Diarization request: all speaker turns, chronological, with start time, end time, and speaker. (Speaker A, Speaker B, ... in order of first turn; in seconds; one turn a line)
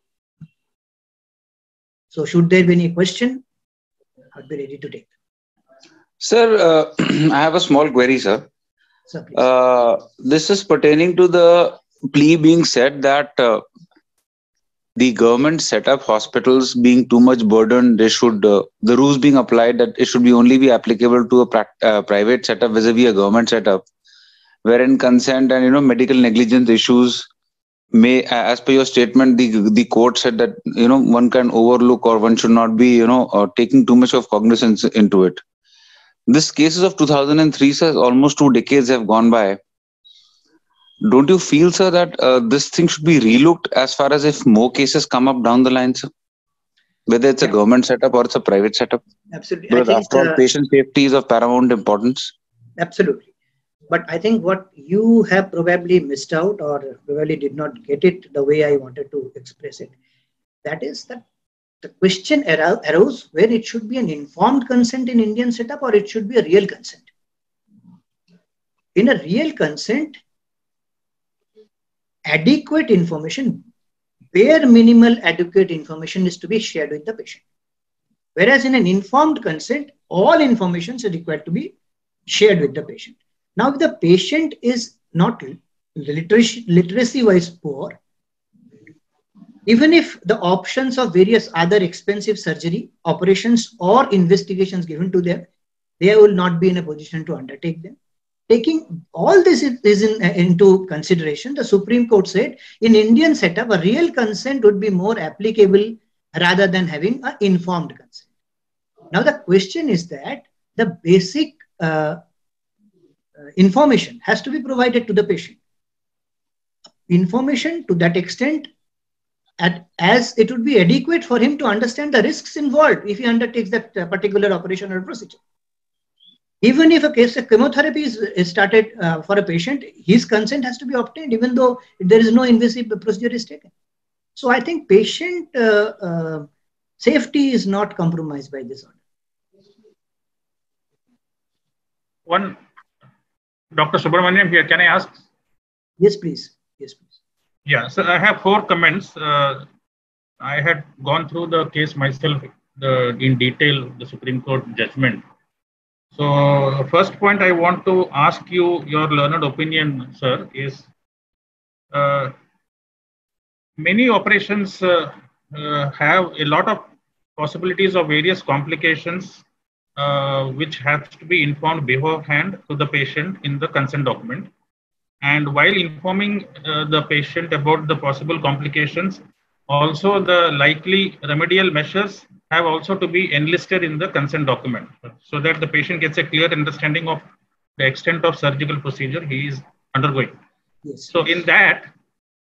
Speaker A: 2.1-3.4
Speaker A: 4.3-5.1
Speaker B: 6.2-8.5
Speaker A: 9.1-9.4
Speaker B: 9.3-13.7
Speaker B: 15.0-23.9
Speaker B: 24.6-27.3
Speaker B: 27.9-35.4
Speaker B: 36.3-39.6
Speaker B: 41.0-46.1
Speaker B: 47.1-49.0
Speaker A: 49.3-50.4
Speaker B: 49.7-52.3
Speaker A: 52.8-53.3
Speaker A: 53.9-59.9
Speaker A: 60.6-61.2
Speaker A: 61.8-67.1
Speaker A: 69.0-70.2
Speaker A: 72.3-73.7
Speaker A: 74.3-77.4
Speaker A: 78.3-81.7
Speaker A: 82.3-88.0
Speaker A: 89.7-95.5
Speaker A: 96.0-98.0
Speaker A: 98.5-108.3
Speaker A: 109.1-112.2
Speaker A: 113.6-115.6
Speaker A: 117.1-118.7
Speaker A: 119.6-125.4
Speaker A: 126.6-133.7
Speaker A: 134.4-136.5
Speaker A: 137.0-138.9
Speaker C: 142.3-142.6
Speaker C: 143.7-145.2
Speaker A: 146.0-147.1
Speaker C: 147.7-149.7
Speaker C: 150.4-155.2
Speaker C: 156.1-160.9
Speaker C: 161.9-162.3
Speaker C: 163.8-169.4
Speaker C: 170.0-174.5
Speaker C: 175.2-187.2
Speaker C: 187.8-190.3
Speaker A: 190.8-191.1
Speaker C: 191.1-191.9